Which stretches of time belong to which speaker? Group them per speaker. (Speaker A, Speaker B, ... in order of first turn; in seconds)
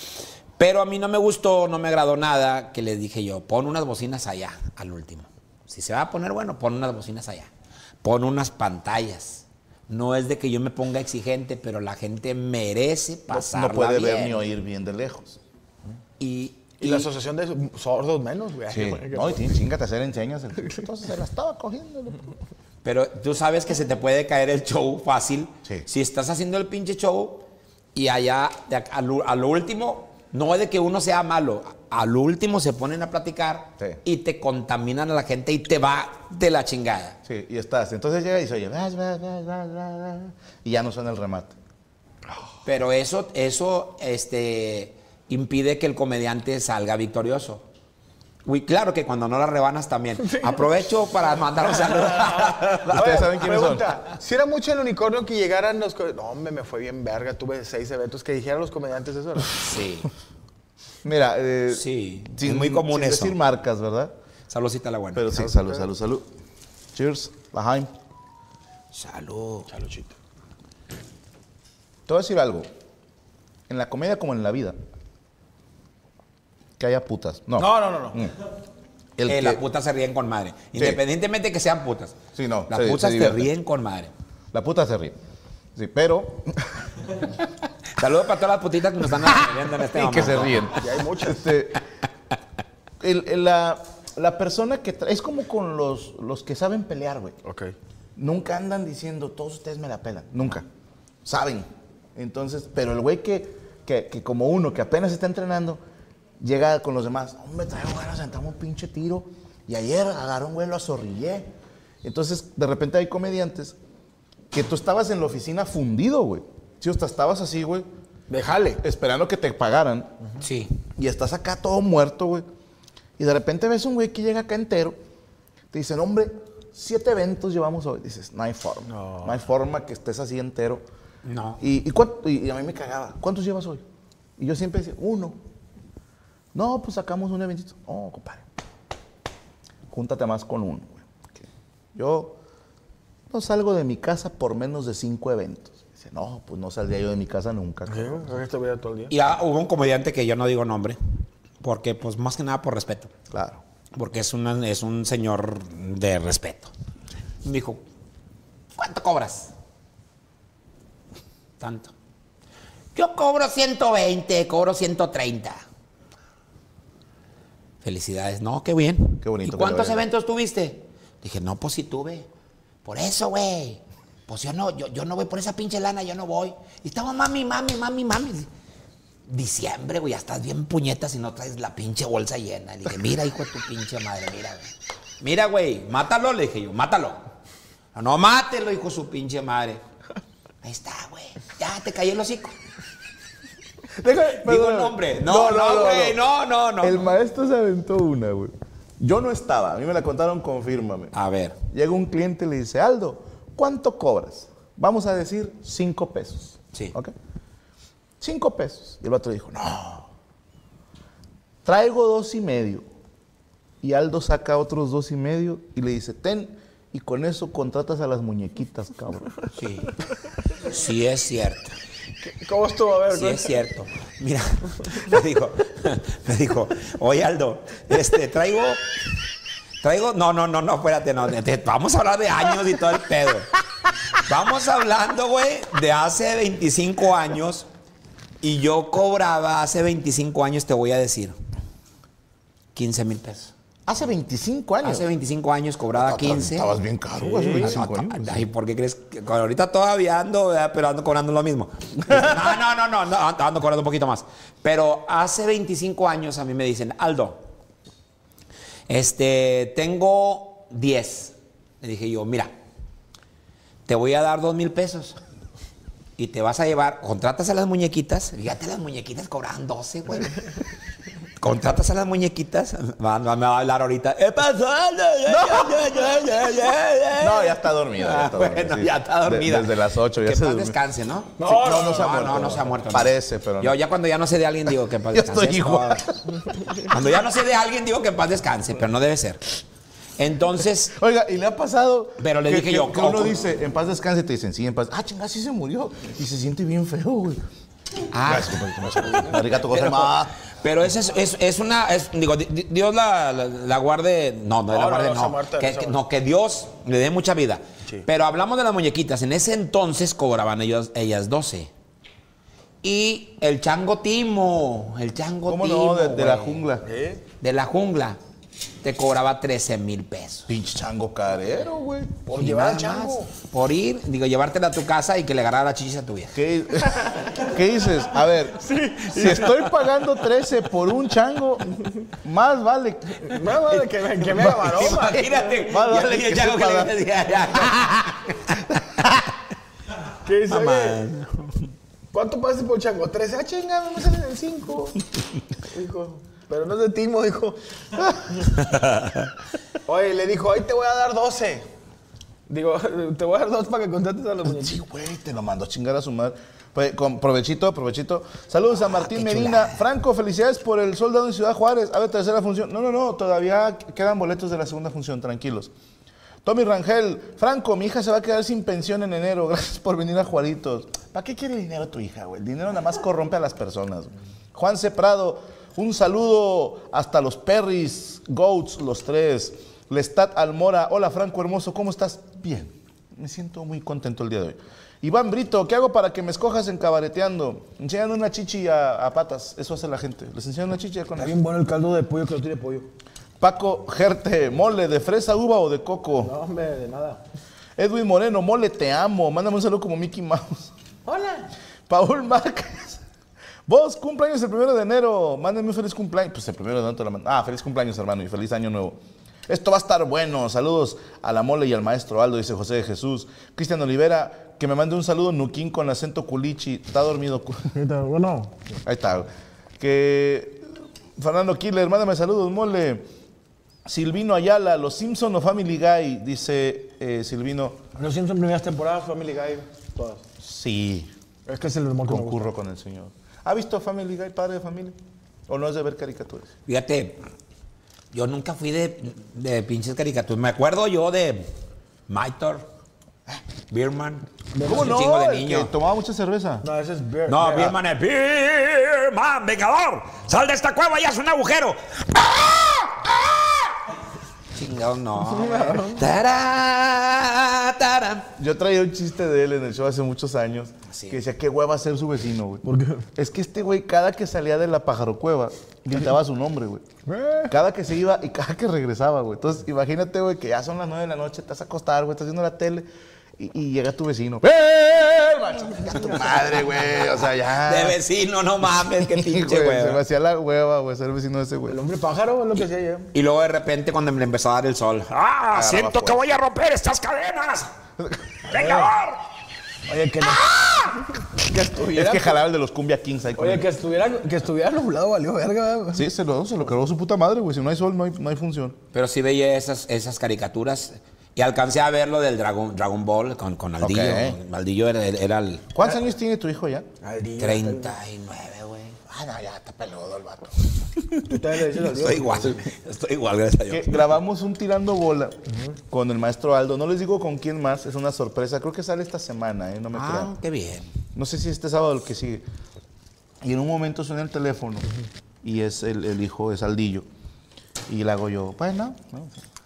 Speaker A: 0.6-7.5, 8.0-14.4, 16.2-17.1, 22.8-37.2, 42.6-47.6, 48.4-53.3, 59.6-60.1, 61.7-63.4, 64.5-65.3, 68.9-69.7, 79.2-82.2, 82.7-84.1, 88.0-90.7, 120.4-120.7, 131.2-131.6, 149.1-151.0, 151.6-153.1, 153.9-156.7, 157.4-157.8, 158.8-159.5, 161.6-161.9, 162.9-165.6, 167.8-172.3, 172.8-178.5, 179.3-187.2, 187.9-189.8, 190.6-192.6, 194.4-197.0, 201.1-201.6, 219.5-219.9, 220.6-221.7, 223.1-228.9, 229.8-233.5, 234.2-237.7, 238.4-241.4, 242.7-243.5, 244.8-246.7, 247.6-257.4, 258.9-262.5, 263.9-265.2, 266.2-270.4, 271.4-286.0, 286.9-289.4, 290.2-290.9, 292.2-293.4, 298.1-311.7, 312.8-316.6, 317.4-318.2, 318.8-320.5, 322.4-326.4, 334.5-338.4, 340.5-341.7, 348.6-349.3, 358.9-359.8, 436.6-437.2, 438.1-441.5, 442.1-442.7, 443.7-445.7, 447.3-453.7, 454.5-458.3, 460.9-461.2, 477.6-480.0, 483.1-487.7, 488.4-489.2, 498.9-505.7, 507.4-509.0, 511.9-514.1, 519.9-520.9
Speaker B: 13.3-15.4, 18.7-22.3, 37.2-41.5, 52.9-54.0, 61.0-64.1, 65.1-66.3, 66.9-67.9, 72.1-72.7, 73.7-74.8, 76.8-78.3, 79.2-79.6, 80.7-81.0, 82.3-83.5, 84.5-85.2, 85.8-86.8, 89.8-91.8, 93.0-97.3, 98.2-100.7, 101.2-105.8, 106.4-111.5, 112.0-113.8, 114.5-117.9, 118.8-120.1, 121.0-122.5, 123.2-125.0, 125.7-130.8, 131.6-133.8, 134.4-135.4, 136.5-138.5, 139.9-142.4, 143.3-148.2, 153.3-153.6, 169.2-170.1, 194.0-196.2, 196.8-201.1, 201.7-207.1, 208.2-210.1, 211.6-212.9, 213.8-219.3, 243.9-245.1, 245.9-248.5, 275.2-275.8, 277.2-280.8, 281.4-283.8, 285.1-286.2, 290.9-297.4, 298.2-300.3, 315.5-316.9, 320.5-322.1, 326.3-333.6, 334.4-334.9, 335.6-336.9, 338.7-339.1, 354.5-365.7, 366.4-391.4, 393.4-396.3, 397.8-400.7, 401.9-403.0, 403.7-417.7, 418.8-423.1, 423.9-427.8, 430.4-431.1, 432.1-435.0, 435.5-436.5, 444.6-446.6, 458.4-466.8, 467.5-478.0, 478.6-481.8, 485.5-486.3, 491.9-493.7, 495.9-498.8, 503.8-504.4, 505.7-506.9, 509.1-511.4, 513.7-515.4, 515.9-520.3, 521.1-522.4, 523.4-524.9, 525.4-527.1, 527.9-529.4
Speaker C: 16.8-19.5, 50.2-50.7, 51.7-59.5, 65.3-65.9, 69.7-70.1, 77.6-78.2, 90.8-91.5, 97.4-97.7, 118.3-118.8, 128.9-129.4, 147.9-149.1, 222.2-223.6, 247.2-247.7, 281.4-282.4, 304.7-306.0, 316.8-317.2, 322.2-323.3, 328.6-329.6, 333.3-335.5, 340.2-341.0, 342.1-345.0, 345.7-348.5, 349.9-351.7, 352.5-354.8, 391.1-392.9, 396.2-397.2, 401.1-401.5, 417.7-418.6, 427.9-430.2, 431.5-432.5, 444.6-444.9, 446.6-447.8, 455.2-456.0, 462.6-463.1, 467.1-467.5, 481.7-483.1, 488.5-488.9, 489.9-492.4, 493.4-496.1, 507.0-508.0, 511.3-512.6, 515.5-515.8